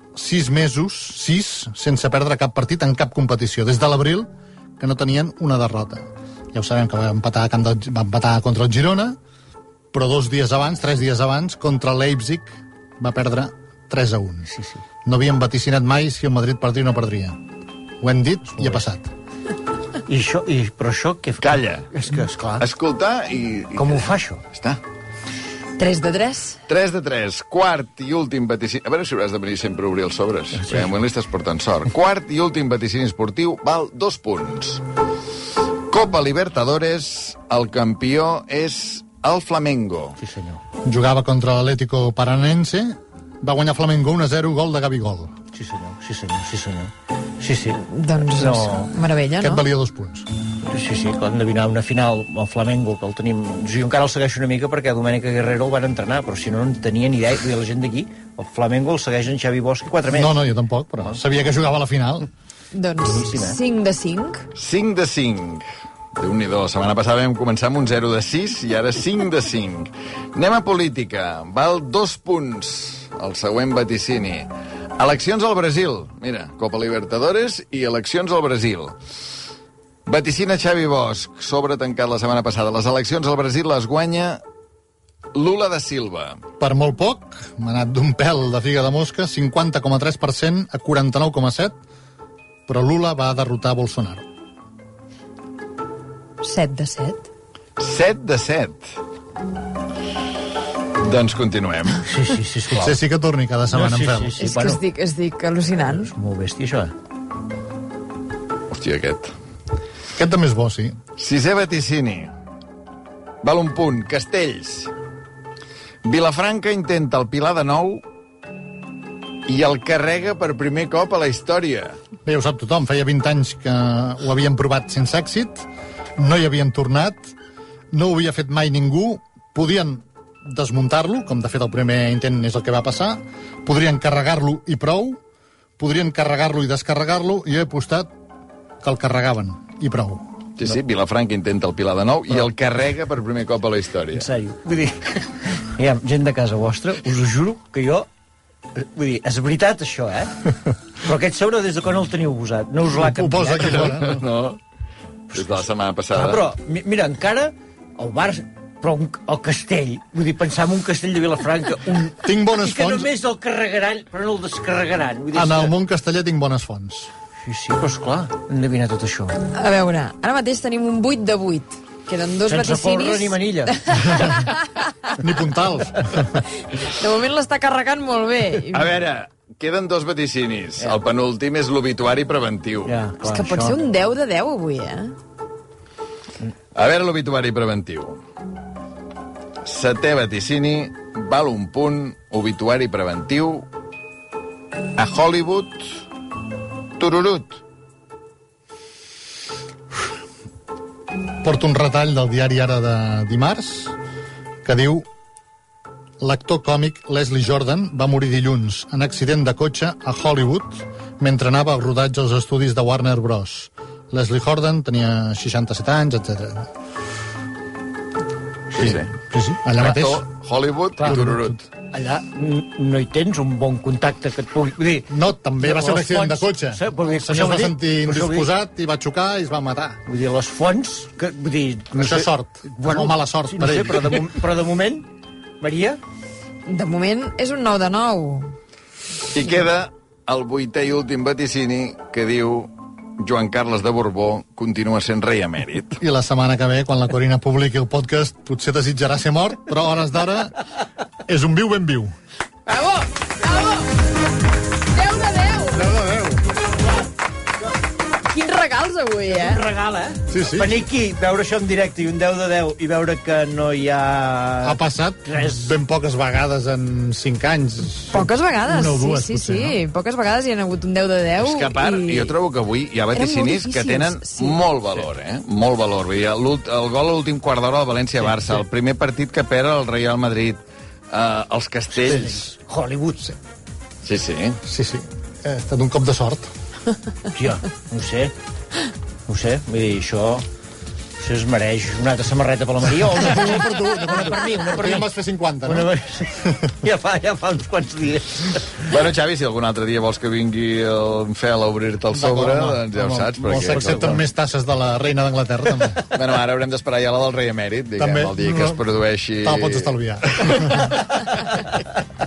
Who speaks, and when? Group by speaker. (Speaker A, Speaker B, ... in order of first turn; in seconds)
Speaker A: 0.2-9.2, 9.9-14.5, 15.1-17.4, 18.0-19.1, 40.9-45.3, 49.4-50.3, 60.1-62.3, 86.6-91.8, 92.7-94.2, 102.7-104.4, 110.2-111.0, 122.2-127.3, 127.9-135.2, 135.8-138.1, 138.8-140.3, 152.9-154.2, 162.2-163.1, 165.3-167.1, 175.2-176.4, 201.4-203.9, 204.7-205.1, 206.2-216.7, 218.8-220.2, 221.0-221.6, 225.1-230.0, 231.9-234.2, 246.0-250.6, 251.3-252.1, 255.7-256.4, 260.3-260.9, 264.6-269.8, 284.6-286.5, 293.0-295.9, 303.6-306.1, 308.0-308.8, 309.4-311.0
Speaker B: 14.5-14.8, 20.1-22.7, 23.8-24.4, 30.5-31.0, 40.2-40.6, 45.5-48.9, 50.7-60.5, 63.1-63.6, 102.1-103.0, 103.7-104.8, 105.8-106.9, 144.1-148.1, 148.8-150.5, 151.0-154.1, 155.3-155.6, 156.1-165.7, 167.4-169.4, 172.5-174.3, 182.8-183.8, 221.9-228.5, 230.1-235.1, 235.6-236.0, 259.3-265.7, 281.9-283.4, 287.3-288.3, 289.3-290.4, 291.2-295.1, 295.6-298.8, 302.1-304.3
Speaker C: 21.4-21.9, 22.6-24.8, 26.7-34.8, 35.9-40.2, 64.5-65.6, 66.2-79.0, 80.1-84.4, 85.3-86.4, 97.8-98.8, 101.0-102.1, 108.7-109.3, 111.2-112.3, 113.4-114.9, 116.0-118.0, 119.5-122.0, 140.6-144.3, 153.6-154.6, 155.3-156.4, 178.7-182.9, 186.8-188.2, 189.6-193.7, 195.0-195.8, 197.0-197.6, 218.8-219.1, 219.8-221.6, 239.3-246.0, 271.4-282.4, 284.0-284.6, 298.9-304.2, 306.1-311.6
Speaker D: 25.8-26.6, 47.9-49.6, 62.7-64.5, 96.4-97.3, 104.4-106.1, 169.5-174.9, 176.7-178.9, 183.2-185.2, 236.7-238.5, 252.7-253.9, 254.9-255.8, 258.2-259.6, 268.1-272.3, 273.1-274.6